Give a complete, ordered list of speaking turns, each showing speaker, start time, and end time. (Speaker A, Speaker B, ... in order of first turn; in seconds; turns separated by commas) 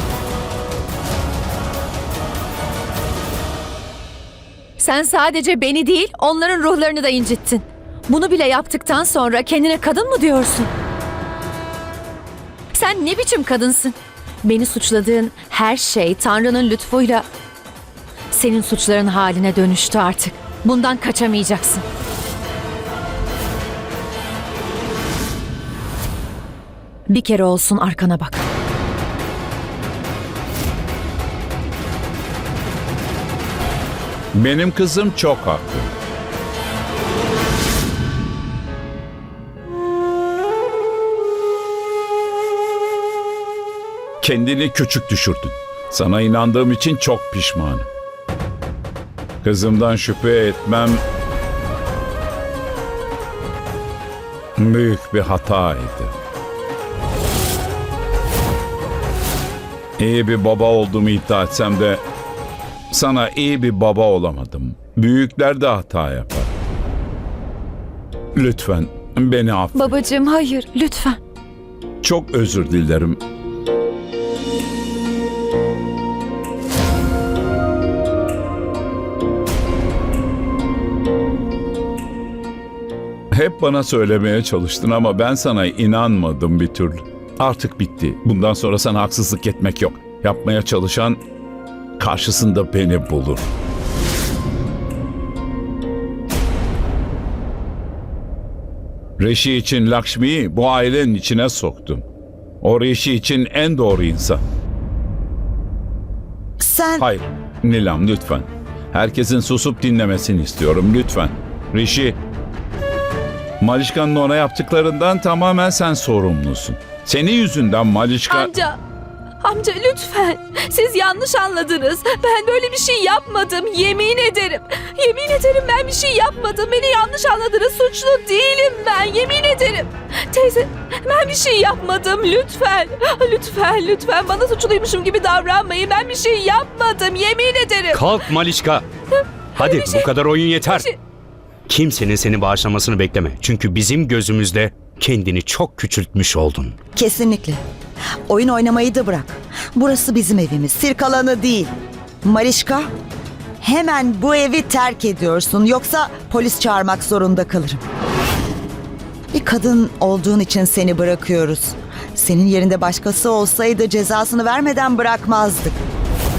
Speaker A: 4.8-10.7, Speaker A: 12.7-17.2, Speaker A: 18.3-21.8, Speaker A: 27.1-28.4, Speaker B: 34.4-35.9, Speaker B: 44.2-47.9, Speaker B: 49.4-51.0, Speaker B: 54.6-56.1, Speaker B: 60.0-62.0, Speaker B: 62.9-66.5, Speaker B: 68.3-69.9, Speaker A: 69.7-71.2, Speaker B: 72.0-73.2, Speaker B: 83.3-91.2, Speaker B: 92.0-93.5, Speaker B: 99.2-102.0, Speaker B: 102.6-104.4, Speaker C: 106.6-107.0, Speaker B: 107.0-112.2, Speaker B: 113.6-118.5, Speaker D: 118.3-118.8, Speaker D: 119.4-138.1, Speaker E: 137.9-138.8, Speaker D: 139.1-140.1, Speaker E: 139.6-140.9, Speaker D: 140.6-140.9, Speaker E: 141.7-146.8, Speaker C: 146.9-147.6, Speaker C: 148.3-151.7, Speaker C: 152.2-152.9, Speaker C: 153.6-157.8, Speaker C: 159.3-165.8